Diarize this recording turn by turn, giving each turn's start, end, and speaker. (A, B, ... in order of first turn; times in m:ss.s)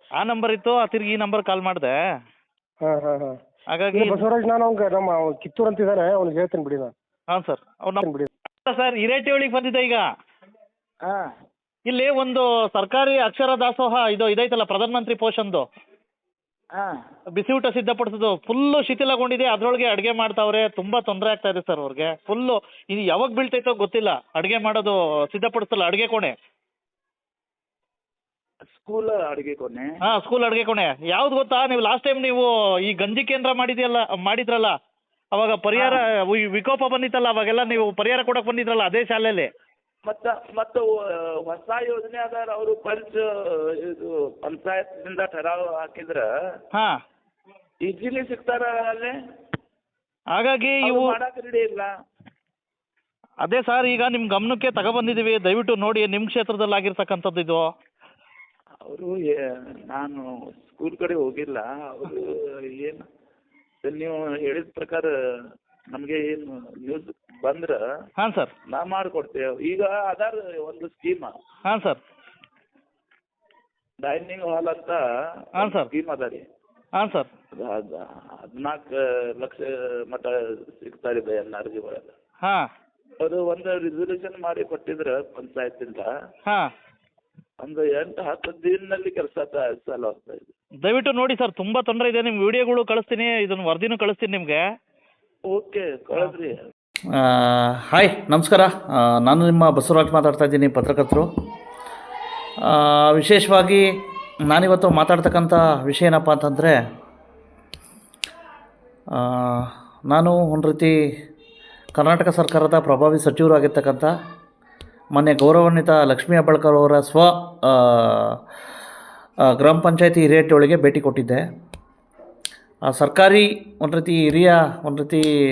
0:00.2-0:01.9 A
0:02.8-0:03.4 B
0:03.7-0:04.2 A
0:04.1-0:06.9 B
0:07.3-0:08.0 A
0:08.6-0:10.0 A
0:11.0-0:11.3 C
0:11.9-0:15.7 A
0:16.7-0:17.0 C
0:17.4-0:26.3 A
0:28.7-0:29.9 C
0:30.0-0:34.7 A
0:35.3-0:39.5 A
0:35.7-0:36.0 C
0:40.0-0:46.3 C
0:47.8-0:49.2 C
0:50.4-0:51.2 A
0:50.8-0:51.9 C
0:53.4-0:57.6 A
0:58.8-1:03.1 C
1:03.8-1:05.1 C
1:05.9-1:07.9 C
1:08.2-1:08.5 A
1:08.7-1:11.3 C
1:11.7-1:12.0 A
1:14.0-1:16.5 C
1:15.6-1:15.9 A
1:17.0-1:17.3 A
1:17.5-1:22.2 C
1:23.2-1:26.1 C
1:27.6-1:30.5 C
1:30.8-1:34.6 A
1:35.5-1:36.6 C
1:37.2-1:41.3 A
1:42.7-1:43.8 A
1:44.5-1:46.8 A
1:49.2-1:50.9 A
1:52.0-1:54.1 A
1:55.1-1:58.4 A
1:59.4-2:01.4 A
2:02.9-2:05.2 A